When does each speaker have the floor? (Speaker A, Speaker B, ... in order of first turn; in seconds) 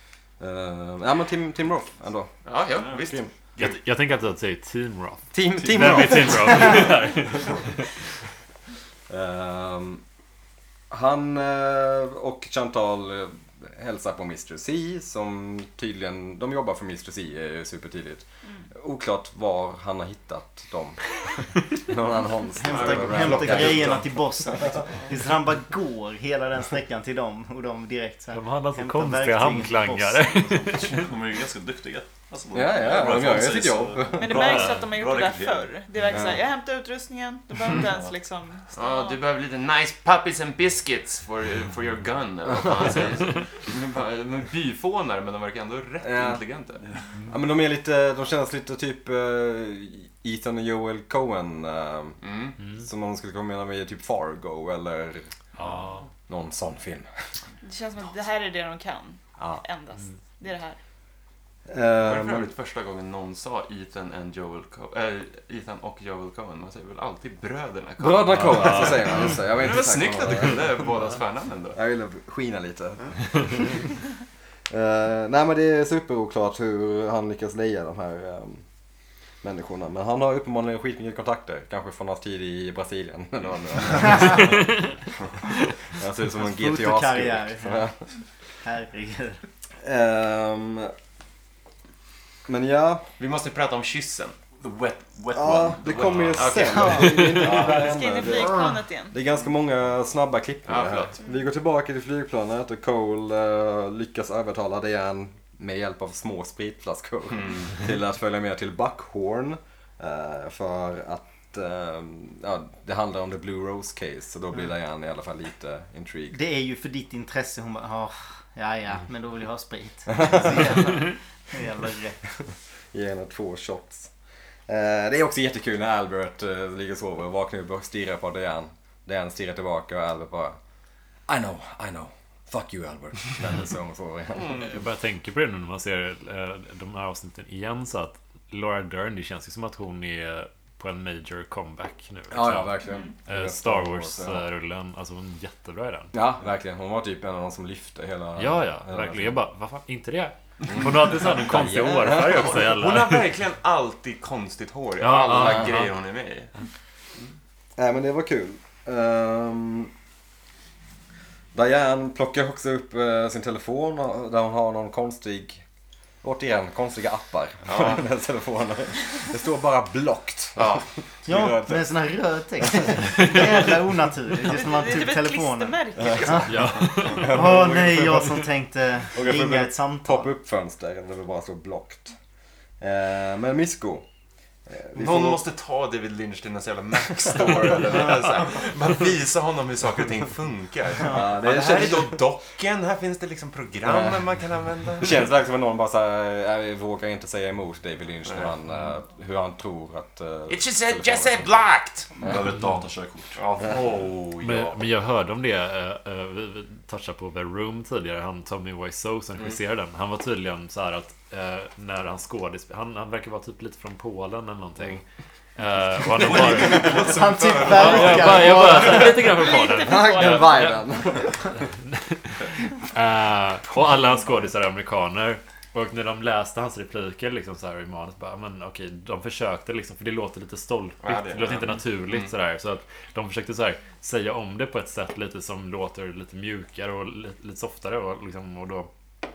Speaker A: 0.4-2.3, 3.0-3.3, 5.3-7.1, 9.1-10.0, 10.9-21.1, 21.7-24.0, 32.5-34.7, 36.1-36.4, 46.0-46.4, 47.3-52.2, 52.7-55.3, 56.3-57.1, 59.4-59.6, 61.7-62.5, 68.0-70.9, 71.7-73.8, 74.7-78.6, 79.4-84.8, 85.9-88.0, 89.8-90.9, 92.5-93.0, 95.3-116.4, 120.2-120.8, 122.9-124.1, 124.7-130.6, 131.3-134.7, 142.3-144.5, 146.1-149.3, 151.3-152.6, 155.4-155.6, 157.8-159.9, 161.5-165.6, 166.2-171.9, 172.8-173.4, 176.0-176.5, 177.1-178.3, 179.1-182.1, 182.8-184.1, 184.7-185.4, 191.1-192.2, 193.8-194.2, 195.0-201.5, 219.6-221.5
Speaker B: 2.5-3.7, 22.7-24.0, 38.7-46.9, 52.2-52.6, 62.0-71.8, 93.2-94.4, 96.3-97.5, 100.7-101.2, 107.4-107.7, 152.3-156.5, 167.6-168.1, 170.6-170.8, 184.9-195.2, 200.5-202.1, 203.4-204.8, 216.3-218.3, 231.0-232.3
Speaker C: 3.6-7.8, 28.3-31.0, 55.6-56.0, 68.3-69.0, 84.3-84.8, 134.5-146.1, 148.4-153.3, 155.0-155.9, 176.5-177.6, 204.4-215.0, 215.6-217.1, 217.6-220.8, 221.7-238.9
Speaker D: 22.6-30.4, 86.4-87.9, 88.6-89.4, 116.3-122.2, 171.2-180.3, 216.3-219.4
Speaker E: 30.4-35.7, 37.7-38.1, 94.6-96.9, 202.2-203.4
Speaker F: 34.2-39.2, 57.6-60.8, 97.4-99.2, 174.4-176.7, 219.4-220.7